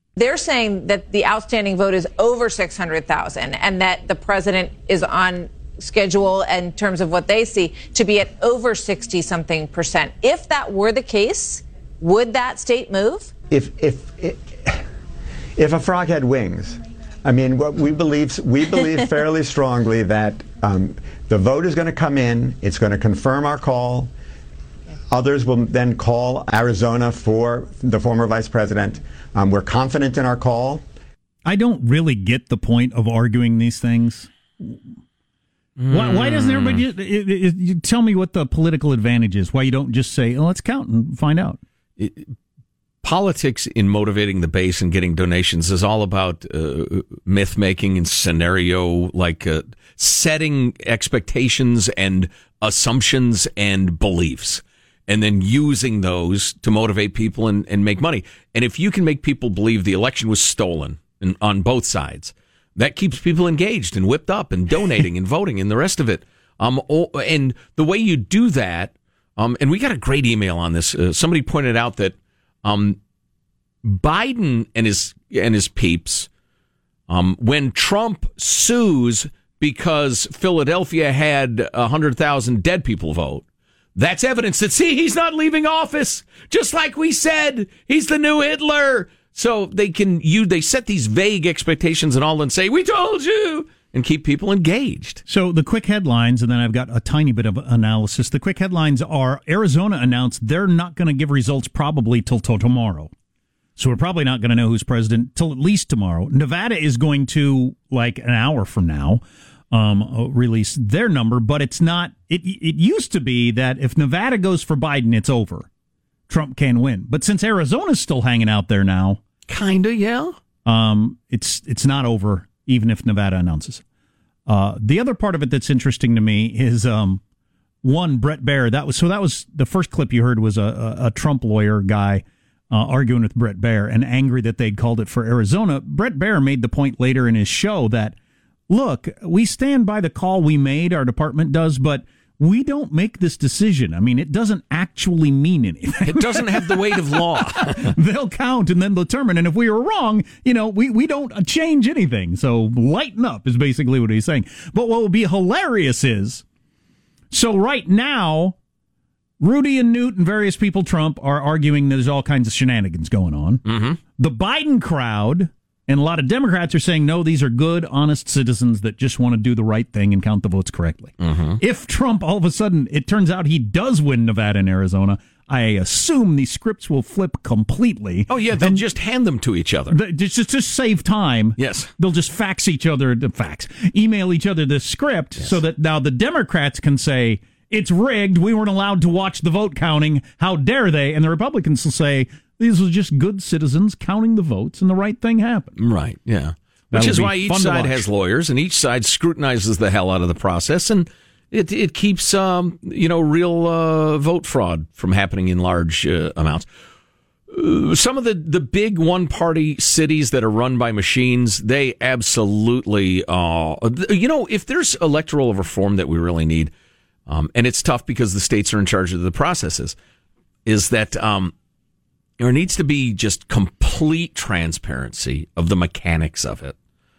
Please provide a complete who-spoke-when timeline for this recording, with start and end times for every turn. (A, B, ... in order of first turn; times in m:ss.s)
0:00.2-0:13.3 A
0:13.5-0:14.8 B
0:15.6-0:24.1 B
0:25.1-0:30.8 B
0:31.4-0:34.8 C
0:35.8-0:36.8 D
0:35.9-0:41.6 C
0:42.0-0:42.3 D
0:43.0-1:13.0 D
1:13.8-1:16.3 D
1:17.1-1:23.4 D
1:24.0-1:35.2 D
1:35.3-1:43.1 C
1:43.8-1:55.7 C
1:56.3-1:59.2 C
1:59.5-2:00.4 D
2:00.6-2:03.8 C
2:04.5-2:07.2 C
2:07.8-2:18.2 C
2:18.7-2:27.2 C
2:26.1-2:27.9 D
2:27.8-2:36.4 C
2:37.3-2:38.6 C
2:39.4-2:43.6 C
2:43.7-2:44.0 D
2:44.2-2:58.8 C
2:51.2-2:51.6 D
2:58.3-3:00.0 D
2:59.9-3:15.8 C
3:01.6-3:01.9 D
3:15.8-3:26.7 D
3:16.9-3:18.1 C
3:27.5-3:36.7 D
3:37.3-3:40.0 D
3:40.7-3:41.5 D
3:42.4-3:46.8 D